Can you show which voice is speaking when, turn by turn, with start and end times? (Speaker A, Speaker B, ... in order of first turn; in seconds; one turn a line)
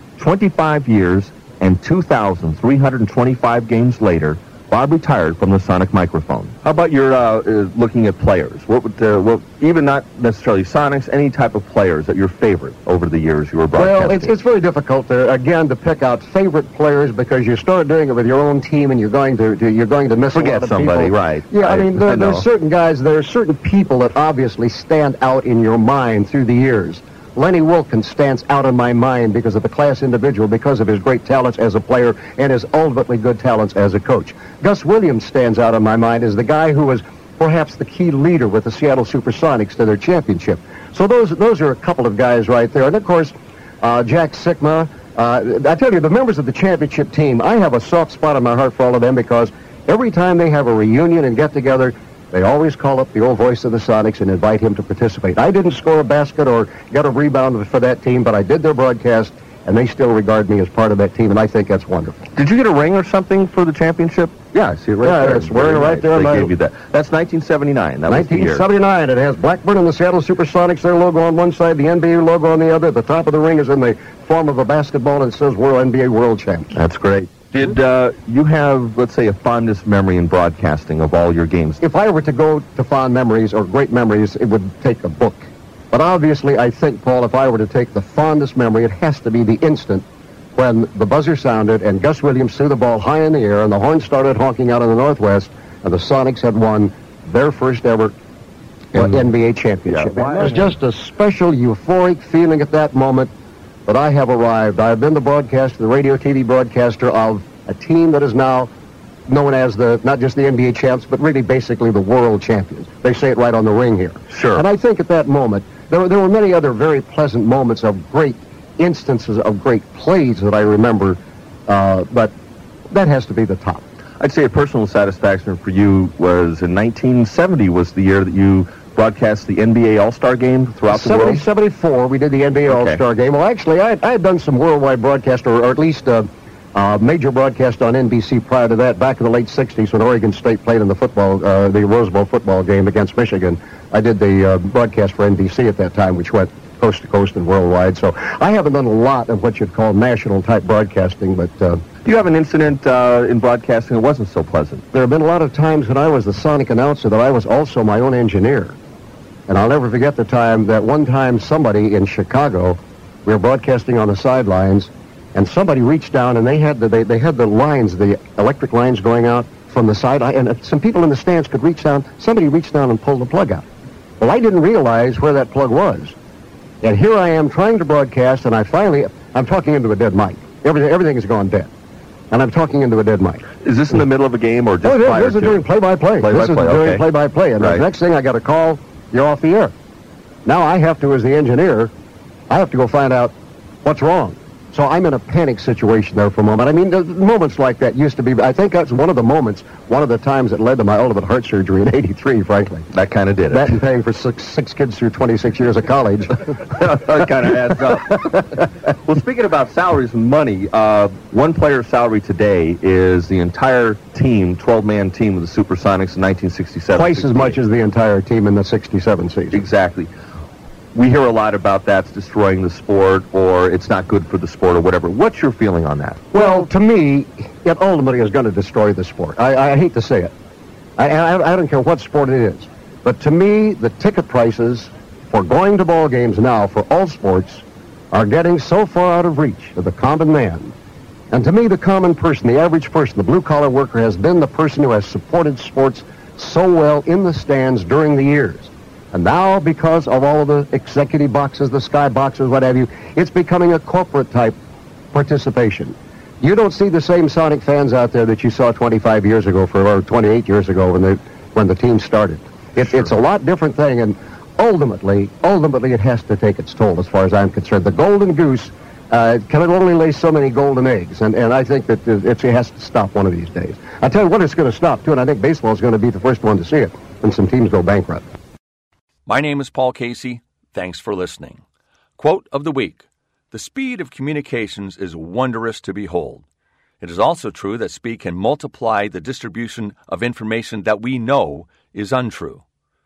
Speaker A: 0.2-14.3
Speaker B: 13.7-62.3
Speaker A: 20.3-22.5
Speaker A: 62.4-68.7
Speaker B: 65.0-66.5
Speaker B: 68.1-76.7
Speaker A: 76.8-81.8
Speaker B: 81.8-98.2
Speaker B: 98.9-103.3
Speaker A: 99.0-99.3
Speaker A: 99.9-100.8
Speaker B: 103.9-108.7
Speaker B: 109.3-122.4
Speaker A: 114.3-114.7
Speaker B: 122.9-123.9
Speaker A: 124.2-131.5
Speaker B: 130.9-151.8
Speaker A: 132.7-133.0
Speaker A: 152.0-154.8
Speaker B: 154.9-158.8
Speaker B: 159.5-173.7
Speaker B: 174.2-176.2
Speaker B: 176.8-181.7
Speaker B: 182.3-183.5
Speaker A: 183.6-185.7
Speaker B: 184.8-189.8
Speaker A: 186.2-187.1
Speaker A: 187.6-187.9
Speaker B: 190.4-191.9
Speaker B: 192.5-202.9
Speaker A: 202.9-203.8
Speaker B: 203.5-206.5
Speaker A: 206.8-217.6
Speaker B: 216.9-219.6
Speaker A: 219.5-220.1
Speaker A: 220.9-226.5
Speaker B: 226.3-230.3
Speaker B: 231.0-240.8
Speaker B: 241.3-254.6
Speaker B: 255.1-278.3
Speaker C: 279.3-281.6
Speaker C: 282.2-286.5
Speaker C: 287.0-292.6